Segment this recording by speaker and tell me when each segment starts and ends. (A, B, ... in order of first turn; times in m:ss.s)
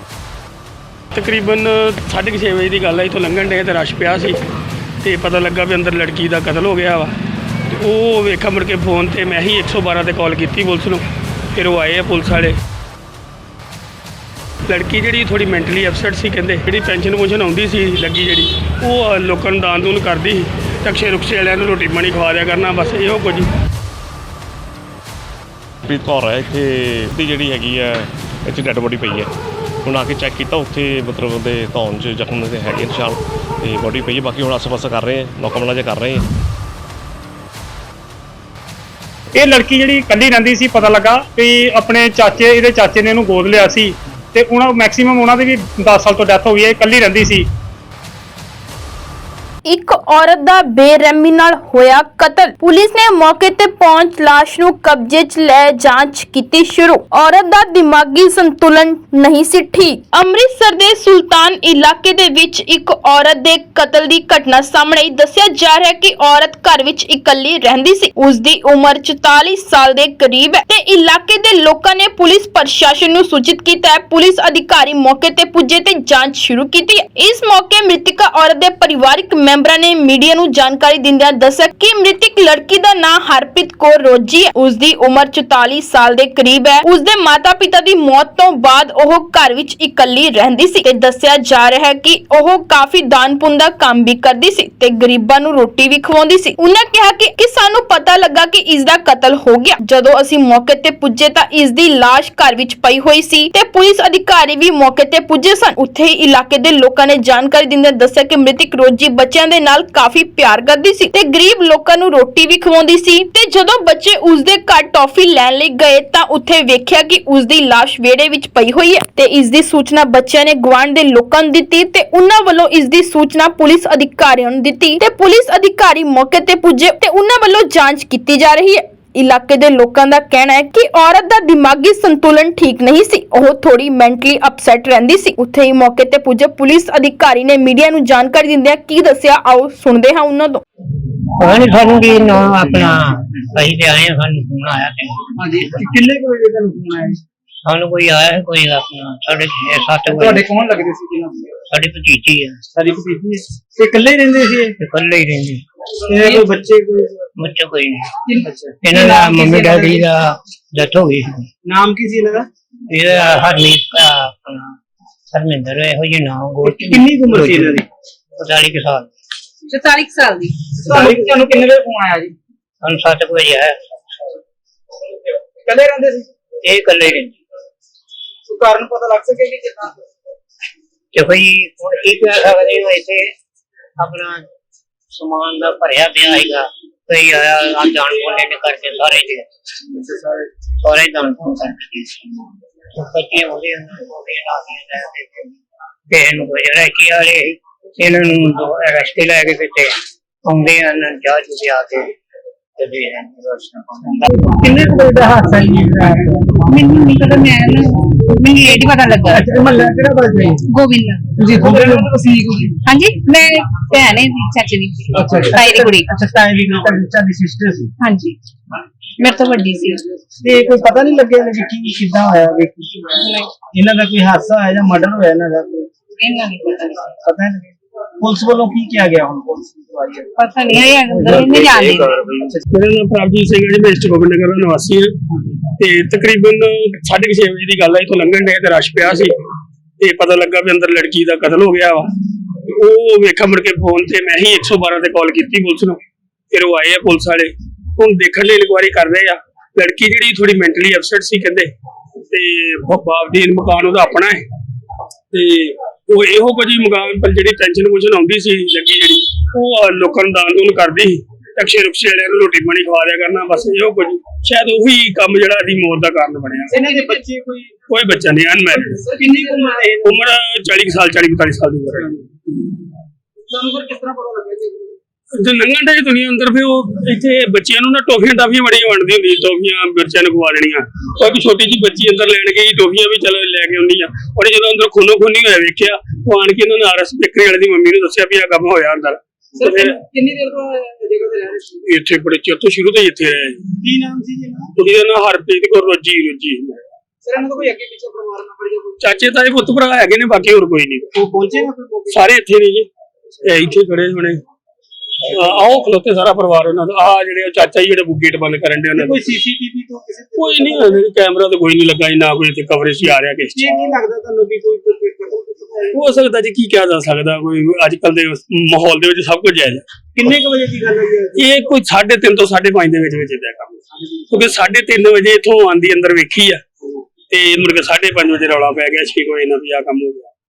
0:01.2-0:04.4 A
0:05.0-0:07.1 A
0:07.8-0:11.0 A
0:11.6-0:12.6 A
0:14.7-0:23.5 A
0:25.9-0:29.3 B
0:29.9-0:36.2 B
0:39.4-0:47.5 C
0:49.7-2:20.6 D
2:21.4-2:25.7 E
2:25.5-2:27.2 F
2:27.7-2:30.5 E
2:30.2-2:31.3 F
2:31.7-2:32.6 E
2:32.8-2:34.7 F
2:34.8-2:35.6 E
2:36.1-2:37.3 F
2:37.4-2:38.1 E
2:38.3-2:40.0 F
2:38.8-2:41.5 E
2:41.7-2:42.5 F
2:42.9-2:44.8 E
2:45.3-2:47.8 E
2:46.6-2:47.8 F
2:48.4-2:49.1 E
2:49.7-2:50.6 G
2:50.9-2:51.8 F
2:52.8-2:53.8 E
2:55.7-2:56.2 F
2:56.6-2:57.4 E
3:01.2-3:03.3 E
3:04.0-3:04.4 E
3:05.1-3:09.5 E
3:10.8-3:12.3 E
3:13.0-3:15.5 E
3:16.1-3:19.9 E
3:20.5-3:22.1 E
3:22.8-3:24.2 E
3:24.6-3:26.6 F
3:26.7-3:29.4 G
3:28.5-3:28.7 F
3:29.3-3:30.6 F
3:30.7-3:31.8 G
3:31.4-3:32.8 F
3:32.8-3:36.1 G
3:35.1-3:37.9 F
3:38.0-3:38.4 G
3:39.2-3:40.0 G
3:40.4-3:43.1 F
3:43.2-3:43.5 G
3:43.7-3:45.9 F
3:46.2-3:47.1 G
3:47.2-3:50.3 F
3:50.4-3:52.2 G
3:51.0-3:51.9 E
3:52.7-3:55.2 A
3:55.8-3:59.3 A
4:00.0-4:02.1 A
4:02.7-4:06.0 A
4:06.5-4:11.7 A
4:12.3-4:14.4 A
4:15.3-4:26.8 A
4:26.7-4:27.7 F
4:27.9-4:29.0 A
4:29.2-4:30.1 F
4:30.0-4:32.3 A
4:35.4-4:50.0 A
4:51.8-4:53.6 A
4:53.8-4:54.7 F
4:54.8-4:56.8 A
4:59.0-5:01.1 A
5:01.2-5:02.2 F
5:02.1-5:02.9 A
5:03.4-5:04.4 A
5:05.2-5:09.4 A
5:09.0-5:11.0 F
5:10.4-5:13.8 A
5:13.6-5:16.2 F
5:15.9-5:19.8 A
5:20.2-5:21.5 F
5:21.4-5:23.8 A
5:24.0-5:24.4 F
5:24.3-5:26.6 A
5:27.3-5:30.3 A